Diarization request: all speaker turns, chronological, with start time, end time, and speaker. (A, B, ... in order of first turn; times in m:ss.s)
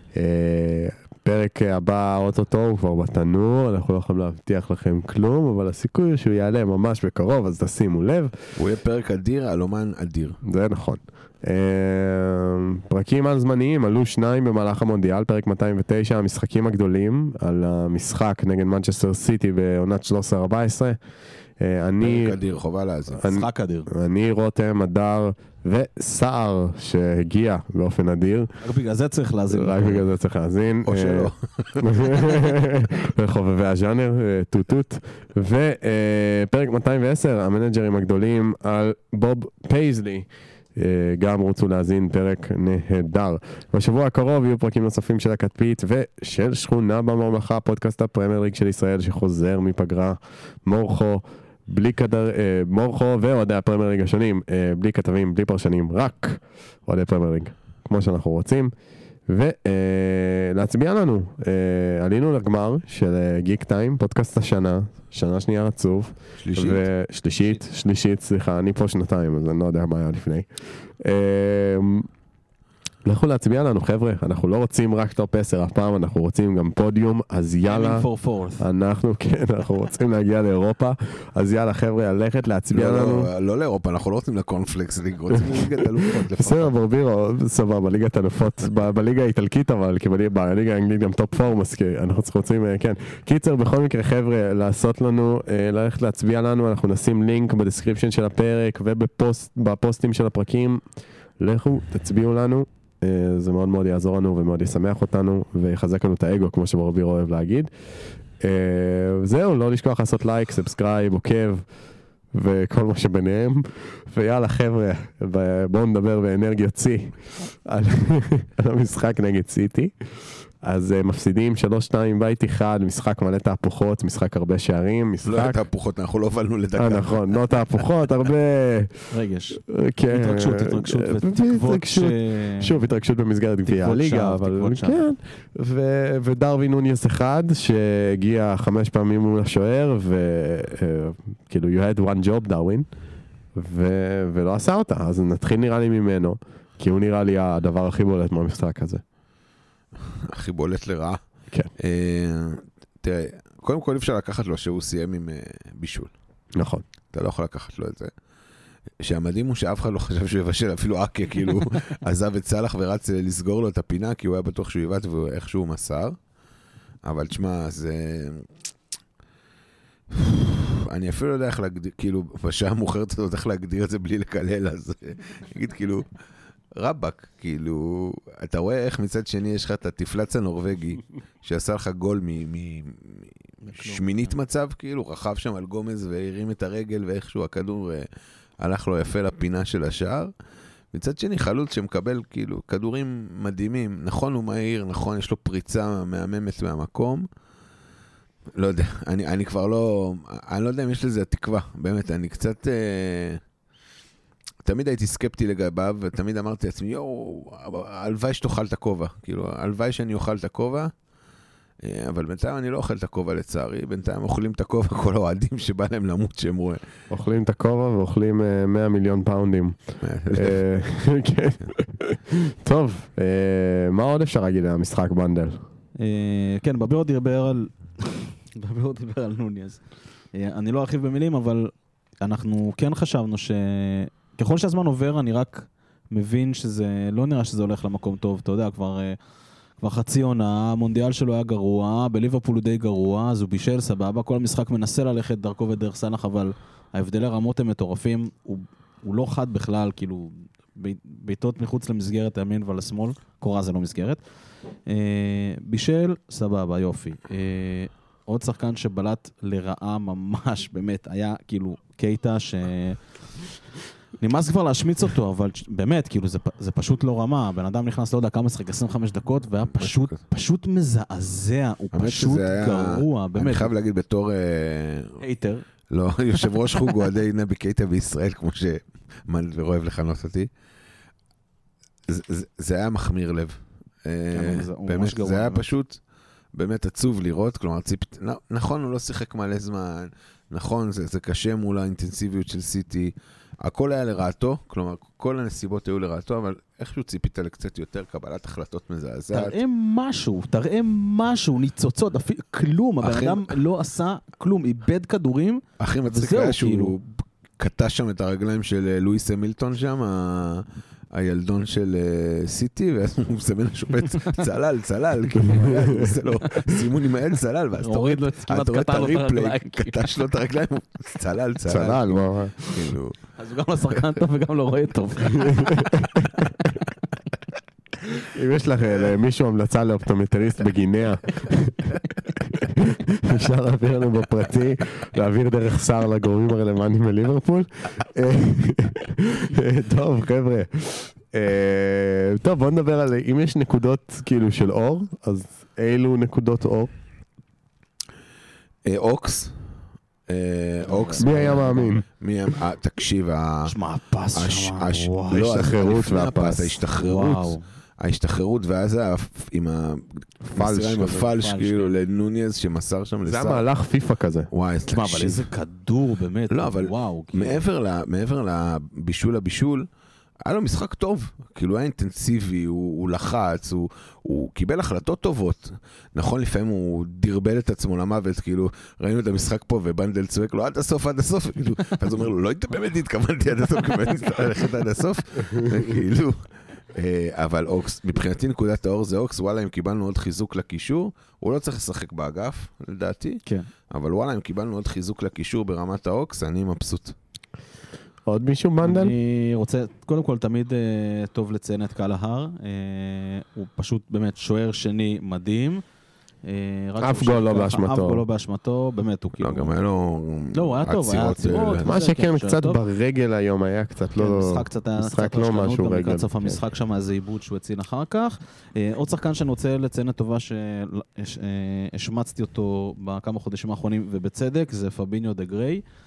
0:00.1-0:08.3 A
0:08.6-0:10.4 B
0:10.4-0:21.0 A
0:21.6-0:22.4 A
0:22.0-0:23.3 B
0:23.2-0:28.5 A
0:23.2-0:23.9 C
0:28.6-0:30.0 C
0:29.5-0:58.7 A
0:30.8-0:32.6 B
0:59.3-1:12.1 A
1:06.4-1:06.8 B
1:13.0-1:18.1 A
1:17.7-1:18.7 C
1:18.6-1:23.3 A
1:22.7-1:26.8 B
1:25.3-1:40.8 A
1:41.4-1:47.7 A
1:48.4-1:51.6 A
1:52.3-1:59.9 A
2:00.6-2:05.6 A
2:05.2-2:07.6 B
2:06.8-2:22.9 A
2:09.1-2:09.6 C
2:10.1-2:12.8 C
2:13.7-2:15.0 C
2:23.6-2:29.0 A
2:30.3-2:31.2 B
2:31.8-2:36.1 B
2:36.6-2:36.8 A
2:37.1-2:38.1 B
2:39.0-2:46.2 B
2:47.0-2:48.5 B
2:50.1-2:56.1 B
2:56.8-3:08.1 B
3:03.6-3:04.3 C
3:08.6-3:10.3 B
3:10.9-3:17.3 B
3:18.6-3:23.4 B
3:24.6-3:30.9 B
3:31.8-3:36.8 B
3:37.1-3:45.6 A
3:40.0-3:40.6 B
3:46.0-3:49.8 C
3:50.3-3:59.2 C
3:59.8-4:14.2 C
4:14.9-4:23.0 C
4:24.2-4:33.7 C
4:29.8-4:30.0 B
4:31.9-4:35.2 B
4:35.2-4:35.6 C
4:35.9-4:40.5 B
4:42.1-4:46.0 B
4:44.3-4:45.7 C
4:46.5-4:59.6 B
4:59.3-5:06.9 C
5:03.0-5:03.6 B
5:05.8-5:23.2 B
5:14.1-5:14.4 C
5:15.4-5:16.2 A
5:16.4-5:16.7 C
5:17.8-5:20.0 C
5:21.7-5:22.9 A
5:23.4-5:26.8 C
5:25.3-5:26.3 A
5:28.2-5:46.9 A
5:48.8-5:49.6 B
5:50.3-5:53.7 B
5:50.9-5:51.9 C
5:51.2-5:52.0 A
5:53.7-5:55.4 C
5:54.3-6:03.7 B
5:55.3-5:56.8 A
5:57.0-5:57.6 C
6:00.5-6:01.2 A
6:01.1-6:02.0 C
6:03.2-6:04.5 A
6:04.5-6:05.5 B
6:04.9-6:07.6 C
6:06.5-6:09.9 B
6:10.4-6:26.4 B
6:26.9-6:37.2 B
6:38.3-6:39.2 A
6:38.8-6:45.8 C
6:46.5-6:49.7 C
6:47.0-6:48.2 A
6:49.4-6:51.9 B
6:50.5-6:52.8 C
6:51.8-6:56.6 A
6:54.2-7:05.8 C